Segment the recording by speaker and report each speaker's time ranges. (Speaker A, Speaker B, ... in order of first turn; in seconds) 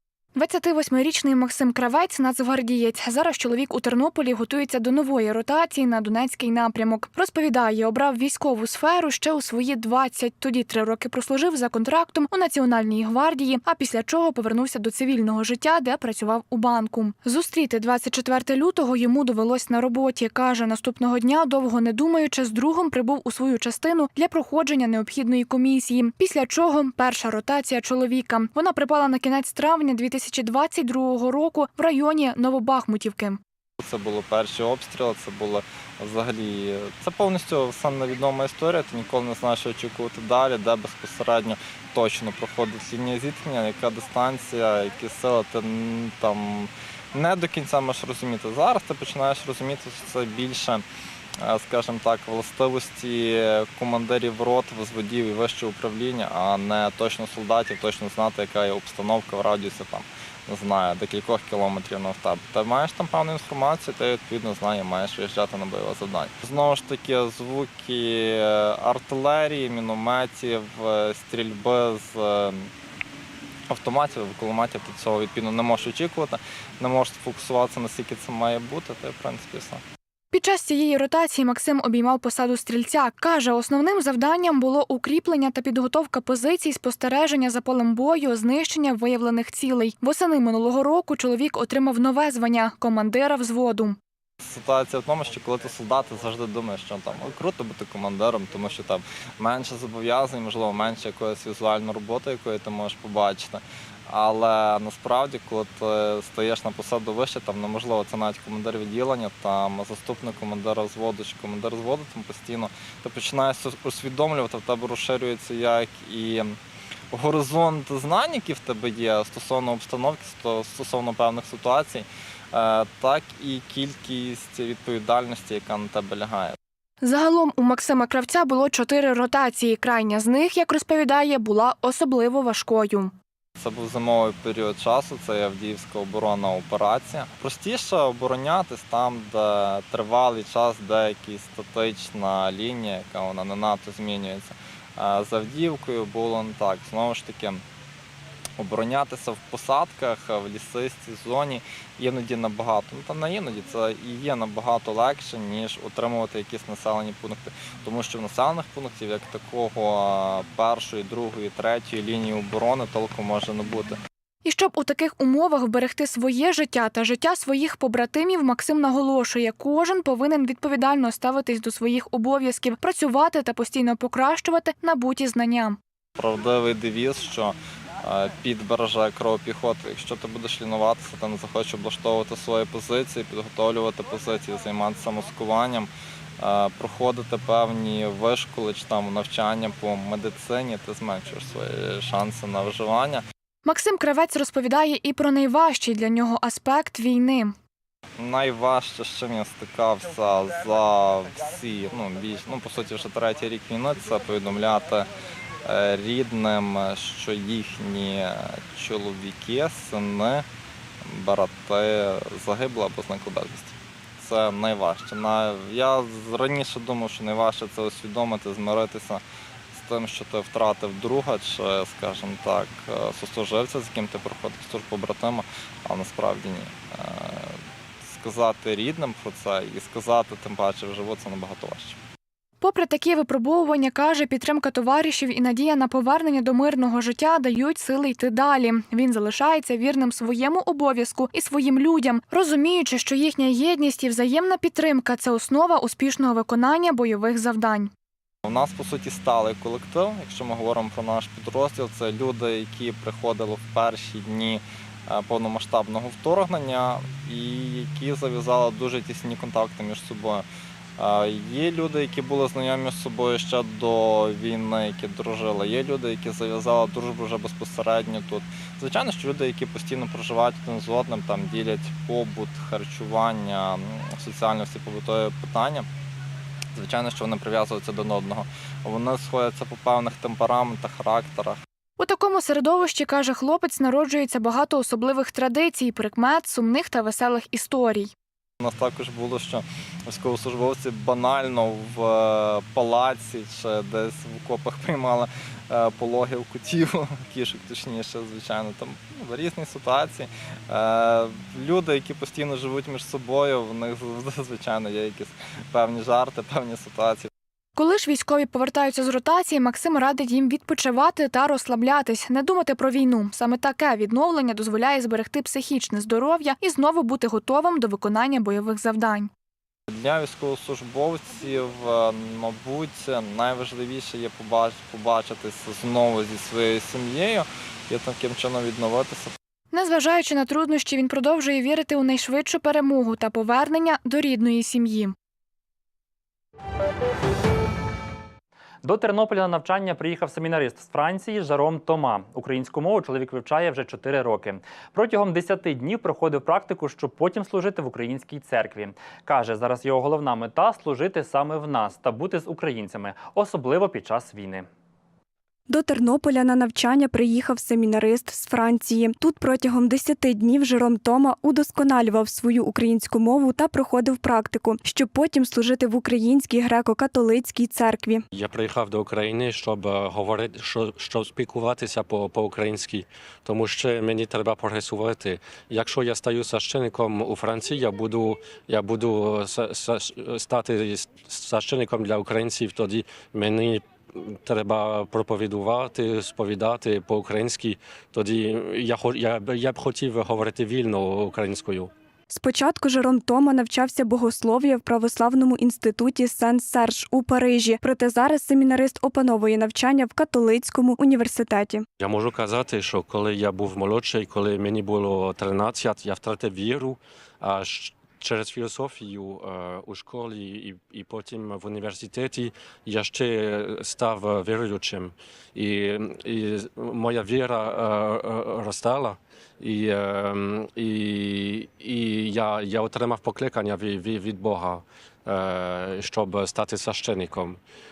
Speaker A: 0.3-33.4, 80.3-94.0, 127.0-133.1, 164.4-175.8, 193.7-197.5, 232.6-247.9, 282.0-288.1, 307.8-319.3, 329.7-335.1
Speaker B: 33.8-50.8, 51.4-72.7, 73.7-79.8, 94.4-116.6, 117.1-126.6, 133.6-147.6, 148.6-164.0, 176.2-193.2, 198.2-205.1, 205.7-210.5, 211.0-232.0, 248.4-260.4, 261.0-275.9, 276.8-281.6, 288.6-307.3, 319.9-329.3
Speaker C: 338.8-354.7
Speaker D: 355.7-368.2, 392.3-401.9
Speaker E: 368.3-391.9, 402.0-427.6